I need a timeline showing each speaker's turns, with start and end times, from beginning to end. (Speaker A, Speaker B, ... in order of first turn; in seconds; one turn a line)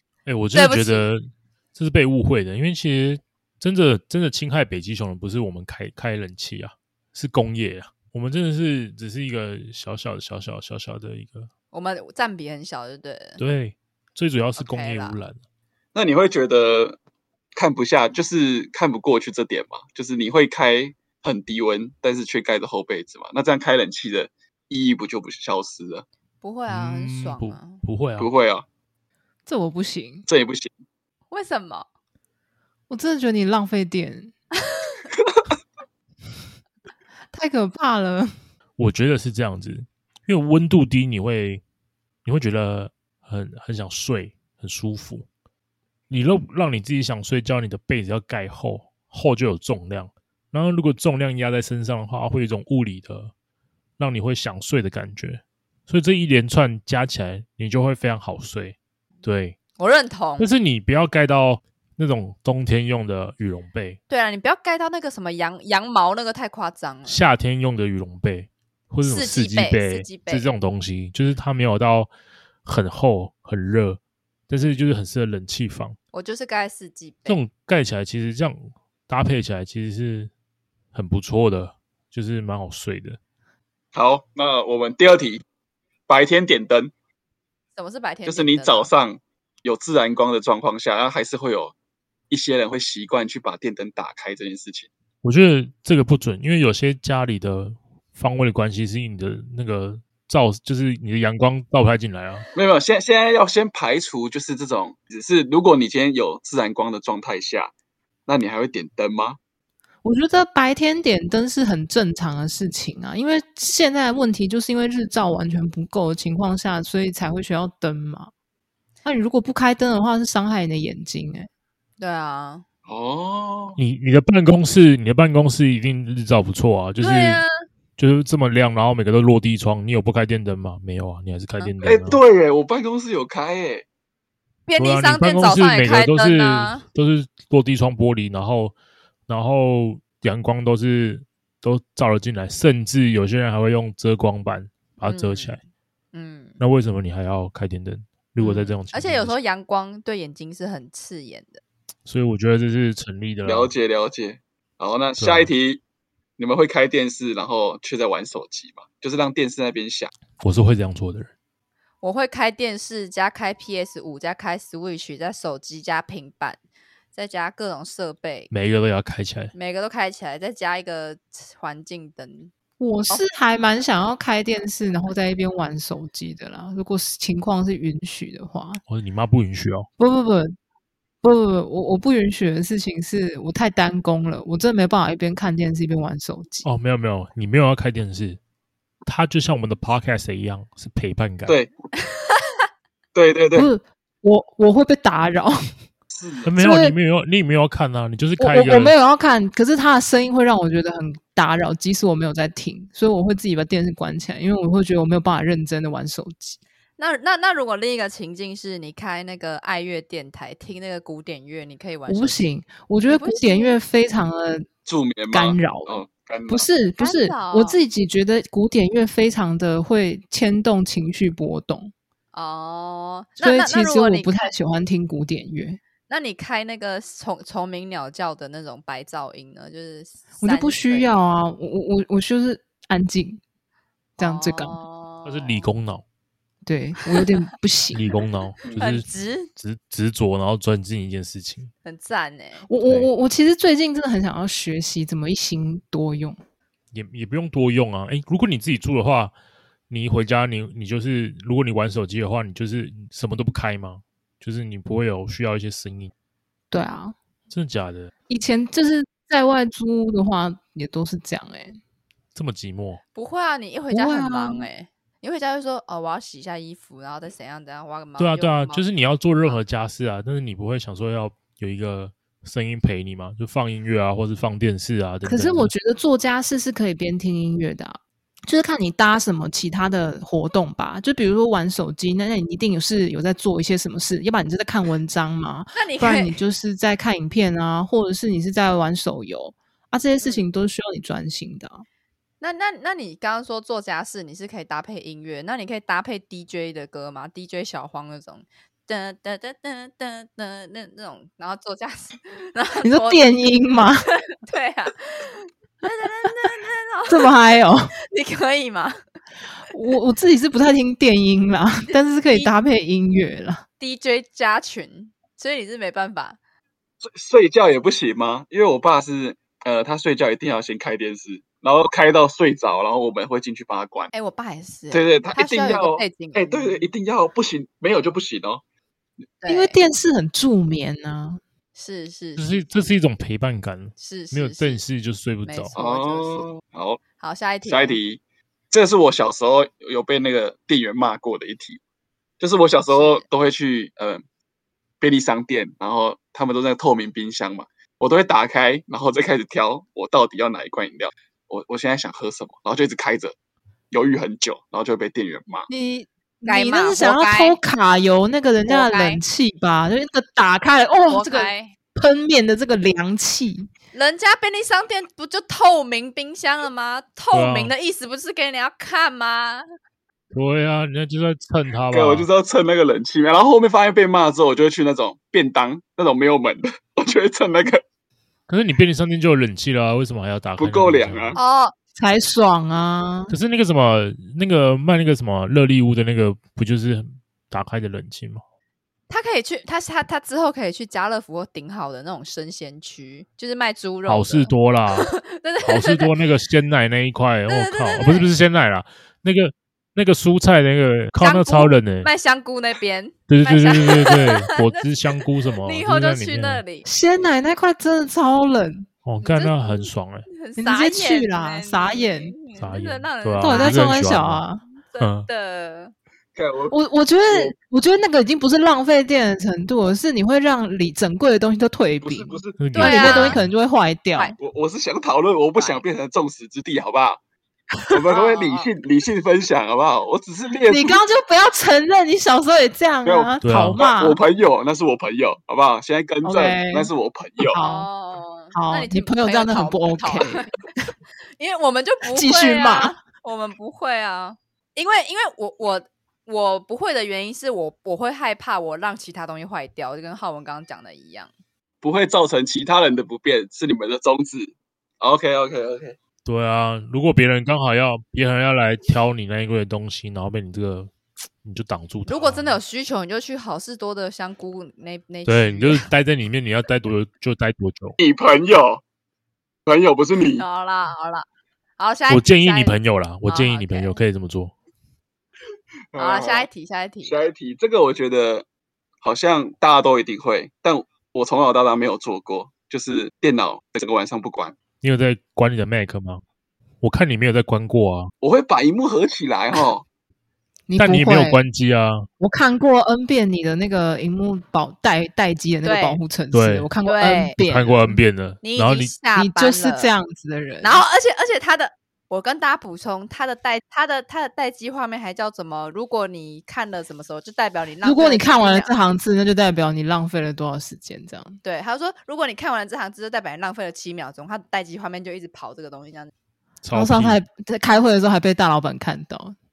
Speaker A: 0.3-11.5
Speaker B: 0.5-1.1
Speaker B: 11.7-13.4
Speaker A: 13.4-15.4
Speaker B: 14.6-15.2
Speaker C: 15.9-17.0
Speaker C: 17.6-26.1
Speaker B: 26.4-27.8
Speaker A: 26.7-28.3
Speaker C: 28.2-28.6
Speaker D: 29.5-30.3
Speaker C: 30.3-30.7
Speaker B: 31.3-31.9
Speaker D: 32.9-34.3
Speaker D: 37.3-38.3
Speaker A: 38.8-41.6
Speaker A: 42.2-45.3
Speaker A: 46.1-53.3
Speaker A: 54.0-59.6
Speaker B: 59.8-60.5
Speaker A: 60.4-64.0
Speaker B: 64.1-67.2
Speaker A: 67.1-72.1
Speaker B: 69.0-70.5
Speaker A: 72.7-76.0
Speaker B: 76.1-77.4
Speaker A: 77.3-80.3
Speaker A: 80.9-83.2
Speaker C: 83.9-85.4
Speaker C: 86.1-86.9
Speaker B: 87.8-88.9
Speaker C: 88.3-91.7
Speaker C: 92.3-94.9
Speaker A: 95.2-102.5
Speaker C: 102.5-107.7
Speaker C: 108.3-109.4
Speaker D: 110.0-118.3
Speaker D: 119.0-121.5
Speaker B: 122.0-122.6
Speaker C: 122.9-123.8
Speaker A: 123.8-127.4
Speaker B: 127.0-127.7
Speaker A: 128.0-132.2
Speaker C: 131.8-133.8
Speaker B: 134.7-136.8
Speaker A: 134.8-138.8
Speaker A: 139.3-145.6
Speaker B: 145.0-145.6
Speaker B: 146.1-146.6
Speaker A: 146.6-149.3
Speaker B: 148.4-151.6
Speaker A: 152.1-153.7
Speaker C: 153.4-155.8
Speaker A: 155.2-155.5
Speaker C: 156.4-160.1
Speaker A: 160.4-161.3
Speaker B: 162.0-166.6
Speaker B: 167.1-168.5
Speaker A: 168.5-169.5
Speaker B: 169.5-172.5
Speaker D: 172.8-178.8
Speaker A: 178.9-179.9
Speaker D: 180.0-180.6
Speaker D: 181.2-186.7
Speaker A: 186.6-188.4
Speaker A: 189.1-191.6
Speaker B: 192.3-192.6
Speaker C: 193.2-193.7
Speaker D: 193.6-195.6
Speaker C: 196.1-196.5
Speaker A: 196.5-198.9
Speaker D: 196.6-197.0
Speaker D: 198.4-206.6
Speaker B: 207.0-212.5
Speaker D: 212.1-214.7
Speaker B: 213.1-213.8
Speaker C: 214.9-216.7
Speaker D: 215.3-221.9
Speaker B: 217.0-217.8
Speaker B: 222.3-224.5
Speaker D: 223.4-225.8
Speaker B: 226.1-231.2
Speaker D: 230.4-233.4
Speaker D: 234.2-234.8
Speaker B: 234.2-235.7
Speaker A: 235.2-236.0
Speaker D: 236.7-238.1
Speaker A: 237.9-241.7
Speaker B: 238.7-239.5
Speaker B: 241.8-242.7
Speaker D: 242.7-246.4
Speaker A: 246.9-249.3
Speaker A: 249.9-256.1
Speaker D: 256.7-257.2
Speaker A: 257.5-258.1
Speaker D: 258.3-261.8
Speaker A: 262.4-263.0
Speaker B: 263.1-268.9
Speaker D: 263.9-264.7
Speaker A: 268.2-275.7
Speaker D: 275.2-291.9
Speaker B: 285.8-286.4
Speaker B: 290.2-290.4
Speaker B: 292.4-303.2
Speaker D: 302.8-304.1
Speaker B: 304.3-307.3
Speaker D: 307.1-307.9
Speaker B: 308.1-309.0
Speaker D: 309.7-313.6
Speaker B: 313.8-316.4
Speaker C: 317.0-324.1
Speaker B: 324.1-326.9
Speaker C: 324.9-328.6
Speaker B: 329.4-329.8
Speaker D: 329.5-331.4
Speaker B: 331.8-332.6
Speaker A: 332.4-335.7
Speaker B: 334.0-334.8
Speaker B: 335.5-336.5
Speaker C: 335.8-337.0
Speaker B: 337.2-338.0
Speaker C: 337.6-338.2
Speaker C: 338.7-341.8
Speaker C: 342.4-344.2
Speaker B: 342.9-343.2
Speaker C: 345.0-353.4
Speaker C: 353.9-355.7
Speaker D: 355.7-363.7
Speaker B: 356.5-357.6
Speaker B: 358.7-359.2
Speaker B: 361.1-361.8
Speaker B: 363.9-369.6
Speaker A: 367.3-367.7
Speaker A: 370.3-372.3
Speaker C: 371.9-377.8
Speaker A: 378.5-381.4
Speaker C: 380.6-381.4
Speaker B: 381.4-381.7
Speaker D: 382.0-383.3
Speaker A: 383.3-388.4
Speaker B: 389.1-396.2
Speaker A: 394.1-402.1
Speaker B: 397.5-398.3
Speaker B: 401.2-404.9
Speaker A: 403.3-406.6
Speaker B: 405.6-406.9
Speaker D: 406.9-408.9
Speaker A: 409.1-410.3
Speaker B: 409.2-414.0
Speaker D: 410.6-412.4
Speaker A: 412.6-414.4
Speaker D: 413.4-414.6
Speaker B: 414.8-415.9
Speaker A: 415.0-415.3
Speaker C: 416.4-416.8
Speaker D: 416.7-424.4
Speaker C: 417.3-417.6
Speaker C: 422.0-422.6
Speaker A: 422.6-423.4
Speaker B: 422.8-423.4
Speaker C: 424.4-427.2
Speaker B: 425.6-425.9
Speaker C: 427.9-431.0
Speaker B: 428.1-428.7
Speaker D: 430.7-434.2
Speaker C: 433.1-437.6
Speaker A: 433.4-433.8
Speaker D: 436.2-437.9
Speaker B: 437.6-440.5
Speaker D: 438.5-440.5
Speaker B: 441.4-451.3
Speaker D: 442.0-443.0
Speaker C: 451.8-456.0
Speaker A: 456.3-462.6
Speaker B: 462.1-465.9
Speaker A: 465.3-468.0
Speaker C: 468.0-468.8
Speaker C: 469.7-470.4
Speaker B: 470.4-471.3
Speaker B: 471.8-474.0
Speaker A: 472.1-474.5
Speaker C: 475.9-476.5
Speaker B: 476.0-477.2
Speaker C: 477.1-478.5
Speaker C: 479.0-484.6
Speaker A: 484.8-486.2
Speaker A: 486.8-488.1
Speaker C: 488.2-489.9
Speaker D: 490.7-491.4
Speaker A: 490.8-492.1
Speaker D: 492.2-498.0
Speaker B: 495.6-496.0
Speaker A: 496.3-496.7
Speaker B: 496.8-497.4
Speaker A: 497.4-498.9
Speaker B: 498.4-499.9
Speaker D: 499.1-500.8
Speaker B: 500.6-508.7
Speaker D: 507.8-511.4
Speaker B: 511.4-516.1
Speaker A: 516.6-517.2
Speaker D: 516.7-519.4